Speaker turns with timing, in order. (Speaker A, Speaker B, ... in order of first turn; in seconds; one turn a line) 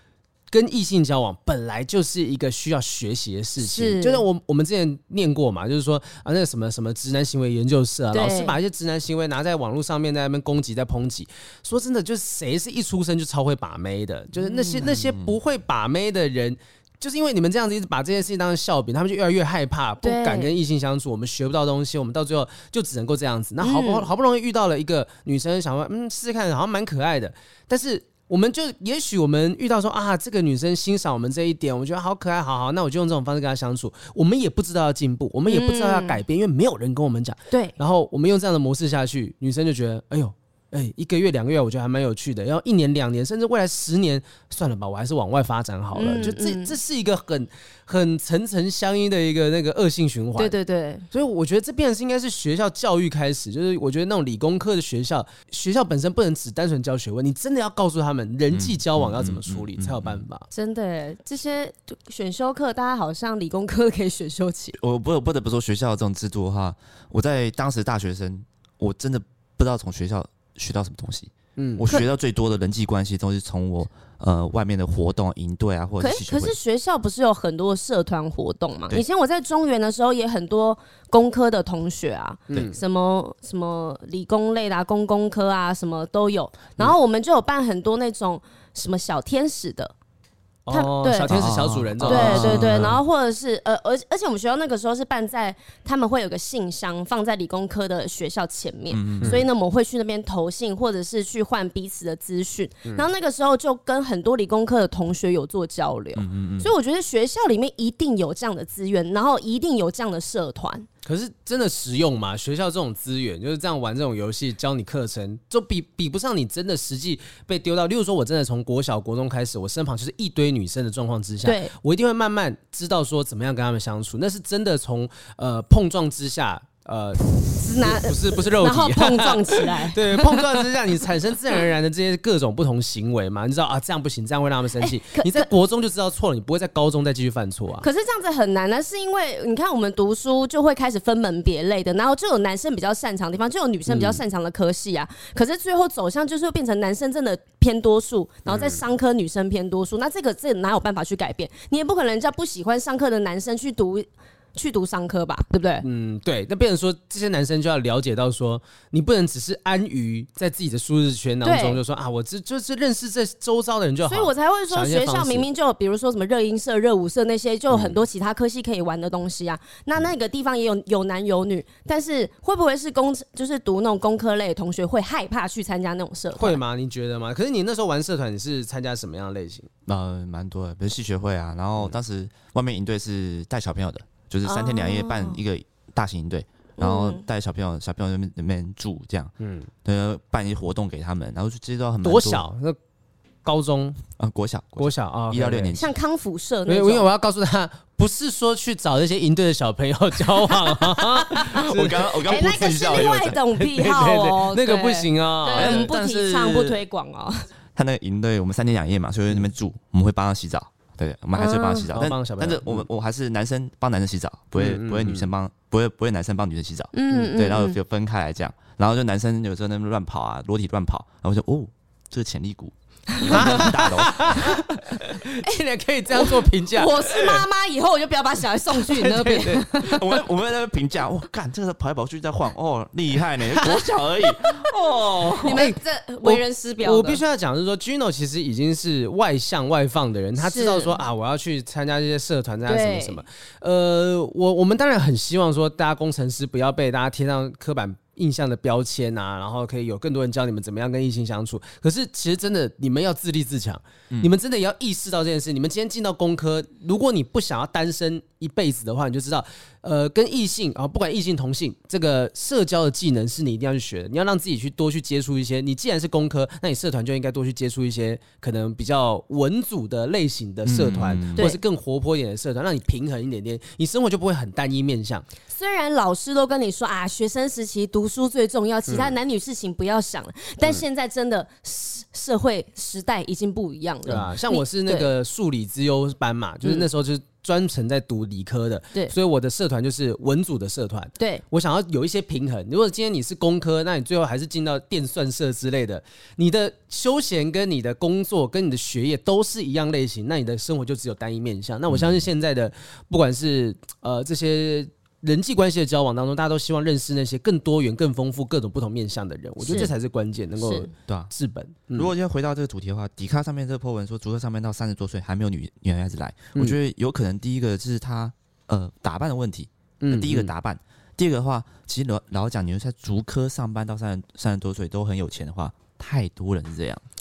Speaker A: 0.5-50.5
Speaker B: 3.6-4.2
Speaker B: 8.1-8.6
Speaker B: 14.4-14.9
Speaker C: 14.8-15.4
Speaker B: 20.0-20.5
Speaker B: 23.6-24.1
Speaker B: 35.5-36.2
Speaker B: 37.5-37.8
Speaker B: 46.0-46.8
Speaker B: 50.4-51.1
Speaker A: 51.1-60.5
Speaker C: 58.5-60.2
Speaker B: 60.5-64.8
Speaker C: 64.8-76.6
Speaker A: 71.6-71.8
Speaker B: 76.0-89.9
Speaker A: 82.5-82.8
Speaker A: 90.7-93.0
Speaker B: 90.7-91.4
Speaker C: 91.3-93.0
Speaker B: 92.0-110.9
Speaker C: 98.9-99.5
Speaker C: 106.2-106.7
Speaker A: 111.0-137.8
Speaker B: 121.4-121.7
Speaker B: 127.6-130.7
Speaker B: 134.8-135.5
Speaker B: 137.8-155.9
Speaker A: 143.9-144.2
Speaker A: 148.5-148.8
Speaker A: 155.8-165.5
Speaker B: 161.4-161.8
Speaker B: 164.1-176.6
Speaker A: 167.7-168.0
Speaker A: 176.4-179.7
Speaker C: 179.9-189.3
Speaker B: 184.4-185.4
Speaker B: 186.8-187.2
Speaker A: 189.4-189.7
Speaker C: 189.8-192.4
Speaker A: 192.0-192.8
Speaker A: 193.4-194.0
Speaker C: 194.2-196.0
Speaker A: 194.8-195.8
Speaker B: 195.8-197.1
Speaker A: 196.7-205.9
Speaker B: 201.2-207.5
Speaker C: 201.5-203.4
Speaker C: 205.5-206.8
Speaker C: 207.8-225.1
Speaker B: 211.4-211.9
Speaker A: 211.9-212.9
Speaker A: 214.6-215.3
Speaker B: 216.9-217.8
Speaker B: 223.1-223.7
Speaker A: 223.2-227.4
Speaker B: 226.2-230.2
Speaker A: 228.7-229.6
Speaker C: 229.6-235.6
Speaker B: 235.3-237.2
Speaker A: 235.5-275.2
Speaker B: 240.4-240.9
Speaker B: 242.7-243.2
Speaker C: 270.6-271.5
Speaker B: 275.5-285.1
Speaker A: 278.9-279.1
Speaker A: 284.1-312.1
Speaker C: 301.9-302.2
Speaker B: 309.6-309.9
Speaker B: 310.6-310.9
Speaker C: 311.9-327.0
Speaker A: 320.0-320.5